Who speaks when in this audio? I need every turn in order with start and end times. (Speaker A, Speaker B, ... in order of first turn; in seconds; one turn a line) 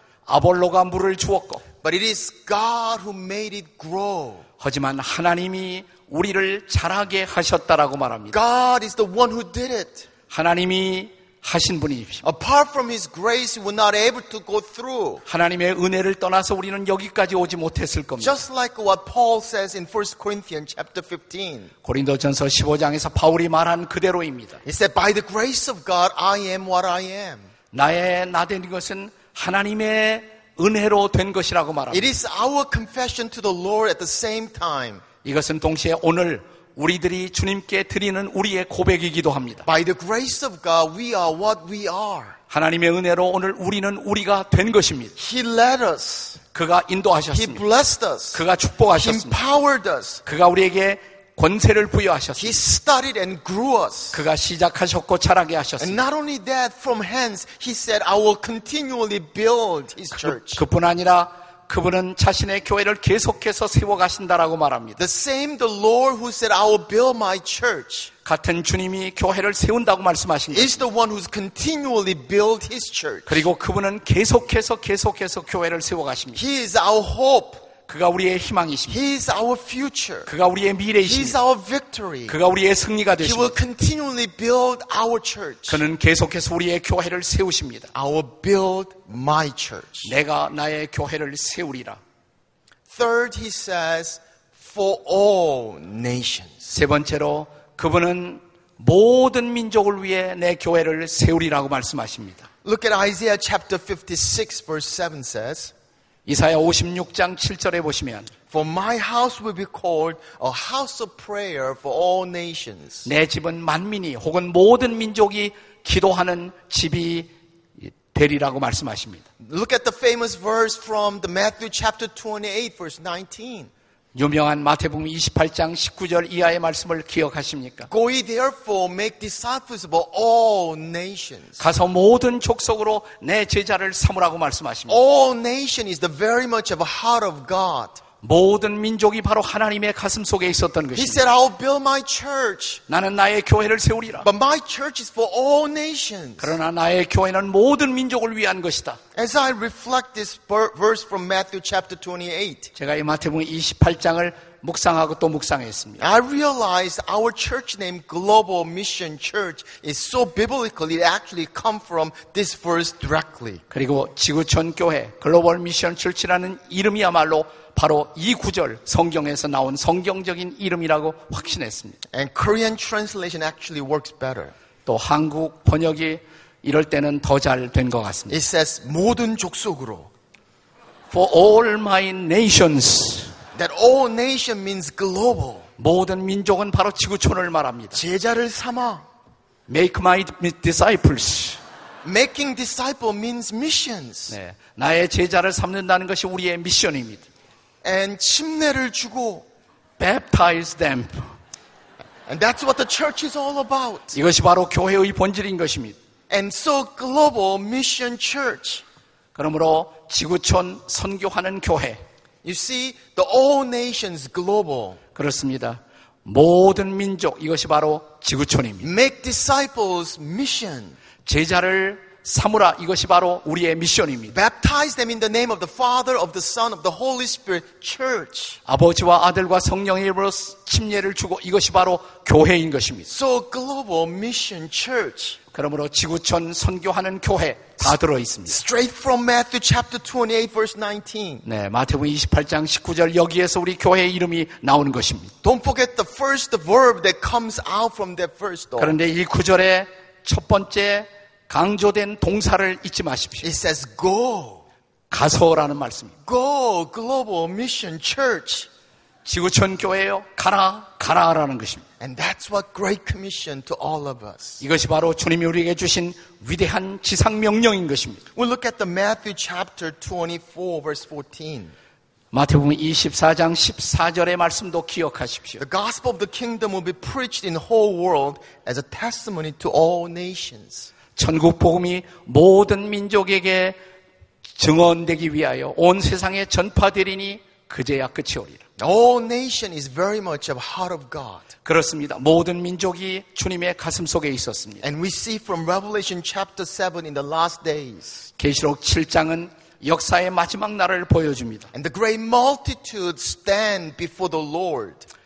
Speaker A: 0.3-1.6
Speaker B: 1.8-4.4
Speaker A: 4.6-8.4
Speaker B: 8.3-10.1
Speaker A: 10.3-12.3
Speaker B: 12.2-15.2
Speaker A: 15.3-18.4
Speaker B: 18.2-21.7
Speaker A: 21.8-24.6
Speaker B: 24.6-27.5
Speaker A: 27.7-32.1
Speaker B: 31.9-35.0
Speaker A: 35.2-39.7
Speaker B: 39.7-42.4
Speaker A: 42.5-45.2
Speaker B: 45.2-46.4
Speaker A: 46.5-47.6
Speaker B: 47.3-48.4
Speaker A: 48.3-49.4
Speaker B: 49.0-50.2
Speaker A: 50.2-52.6
Speaker B: 52.4-54.2
Speaker A: 54.1-56.0
Speaker B: 55.8-60.6
Speaker A: 60.1-65.0
Speaker B: 65.0-68.1
Speaker A: 68.2-70.8
Speaker B: 70.5-73.5
Speaker A: 73.3-76.4
Speaker B: 76.4-77.7
Speaker A: 77.8-79.0
Speaker B: 78.9-80.3
Speaker A: 80.3-81.4
Speaker B: 81.0-82.4
Speaker A: 82.3-83.6
Speaker B: 83.2-85.8
Speaker A: 85.7-87.9
Speaker B: 87.9-90.1
Speaker A: 90.0-92.0
Speaker B: 92.9-96.7
Speaker A: 96.7-102.5
Speaker B: 102.6-105.7
Speaker A: 106.3-108.3
Speaker B: 108.5-113.1
Speaker A: 113.0-119.2
Speaker B: 119.4-123.7
Speaker A: 124.2-127.9
Speaker B: 127.9-131.6
Speaker A: 131.6-135.0
Speaker B: 134.9-138.0
Speaker A: 138.2-141.2
Speaker B: 140.9-142.8
Speaker A: 142.9-144.3
Speaker B: 144.2-146.6
Speaker A: 146.4-149.0
Speaker B: 149.2-152.7
Speaker A: 152.8-156.1
Speaker B: 156.0-163.6
Speaker A: 163.7-172.0
Speaker B: 172.1-174.5
Speaker A: 174.9-178.4
Speaker B: 178.3-180.1
Speaker A: 181.1-183.3
Speaker B: 183.6-185.7
Speaker A: 185.8-188.0
Speaker B: 187.9-189.1
Speaker A: 189.7-191.6
Speaker B: 192.0-194.3
Speaker A: 194.3-197.2
Speaker B: 197.8-199.5
Speaker A: 200.0-201.3
Speaker B: 202.3-204.2
Speaker A: 204.1-206.0
Speaker B: 206.3-208.8
Speaker A: 209.3-212.0
Speaker B: 212.4-215.0
Speaker A: 215.2-218.9
Speaker B: 218.8-221.0
Speaker A: 221.2-224.4
Speaker B: 224.3-228.6
Speaker A: 228.7-233.1
Speaker B: 233.1-235.4
Speaker A: 235.5-238.6
Speaker B: 238.5-241.4
Speaker A: 241.4-245.3
Speaker B: 245.4-249.0
Speaker A: 248.8-253.5
Speaker B: 253.4-254.7
Speaker A: 255.1-256.1
Speaker B: 256.2-258.7
Speaker A: 259.2-261.9
Speaker B: 262.0-264.6
Speaker A: 264.6-268.2
Speaker B: 268.4-271.7
Speaker A: 272.3-275.6
Speaker B: 275.6-280.9
Speaker A: 281.2-283.8
Speaker A: 284.6-288.6
Speaker B: 288.8-291.5
Speaker A: 291.6-294.8
Speaker B: 294.8-298.3
Speaker A: 298.4-301.7
Speaker B: 301.7-305.1